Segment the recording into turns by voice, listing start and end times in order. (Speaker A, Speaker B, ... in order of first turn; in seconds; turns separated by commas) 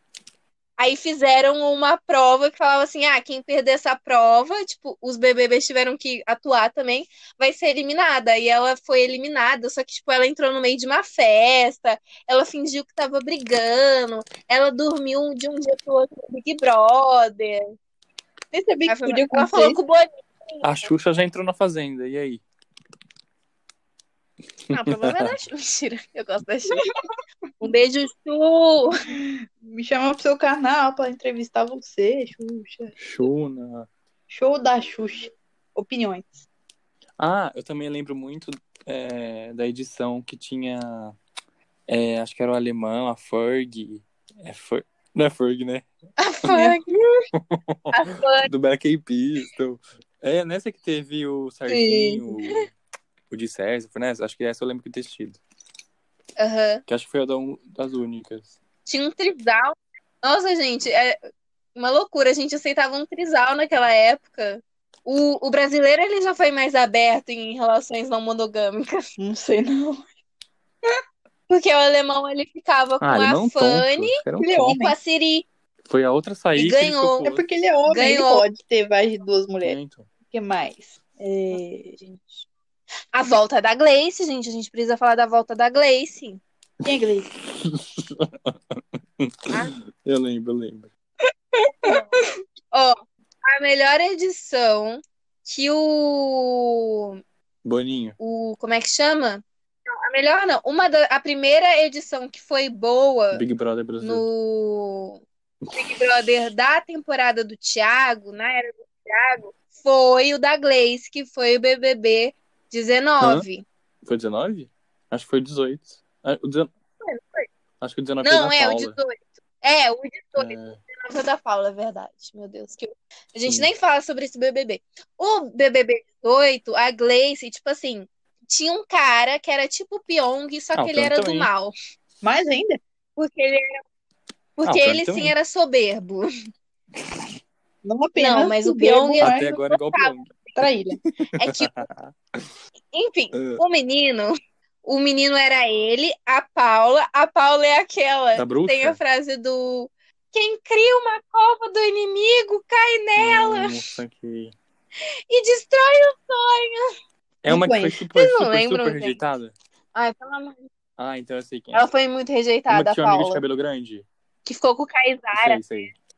Speaker A: 0.8-17.7, Speaker B: 18.5-19.8, Speaker A: 18.9-20.9, Speaker C: 20.6-22.4, Speaker C: 24.7-25.3, Speaker A: 24.7-26.9, Speaker A: 27.6-29.0, Speaker B: 29.0-33.0, Speaker C: 33.0-33.9, Speaker B: 34.3-36.4, Speaker C: 37.2-41.2, Speaker C: 41.9-45.9, Speaker A: 46.2-47.2, Speaker B: 46.5-46.8, Speaker C: 47.3-52.7, Speaker A: 47.9-48.5, Speaker B: 51.7-52.2, Speaker C: 53.3-55.4, Speaker A: 56.4-56.8, Speaker C: 56.9-58.5, Speaker A: 58.9-61.2, Speaker A: 61.7-69.0, Speaker B: 69.2-70.0, Speaker A: 71.5-75.5, Speaker C: 73.0-74.8, Speaker B: 74.4-75.0, Speaker C: 75.8-77.4, Speaker A: 76.5-77.3, Speaker B: 77.2-79.8, Speaker A: 77.9-78.4, Speaker C: 79.6-80.1, Speaker B: 80.3-82.3, Speaker A: 83.1-86.4, Speaker B: 86.8-87.3, Speaker C: 87.5-90.9, Speaker A: 92.7-97.2, Speaker C: 97.6-98.2, Speaker A: 98.2-99.4, Speaker A: 100.0-103.4, Speaker C: 103.3-104.2, Speaker A: 104.0-105.2, Speaker C: 105.6-106.0, Speaker A: 105.8-113.6, Speaker C: 114.0-116.7, Speaker A: 117.0-117.5, Speaker C: 117.8-119.0, Speaker A: 118.2-131.7, Speaker C: 120.3-120.8, Speaker C: 130.7-131.5, Speaker B: 132.2-132.8, Speaker A: 133.2-133.8, Speaker A: 134.6-136.3, Speaker C: 134.6-135.3, Speaker B: 137.8-139.4, Speaker A: 138.2-140.6, Speaker C: 139.2-140.3, Speaker B: 140.6-141.0, Speaker C: 141.1-142.4, Speaker A: 141.4-141.9, Speaker A: 142.9-144.3, Speaker C: 143.3-143.6, Speaker A: 144.8-153.7, Speaker C: 148.3-149.0, Speaker C: 153.2-154.5, Speaker A: 155.3-156.9, Speaker C: 157.4-159.5, Speaker B: 157.5-158.0, Speaker A: 158.1-159.2, Speaker A: 159.9-160.7, Speaker C: 161.0-161.8, Speaker A: 161.7-163.4, Speaker C: 162.7-164.1, Speaker A: 164.4-165.6, Speaker C: 165.3-165.9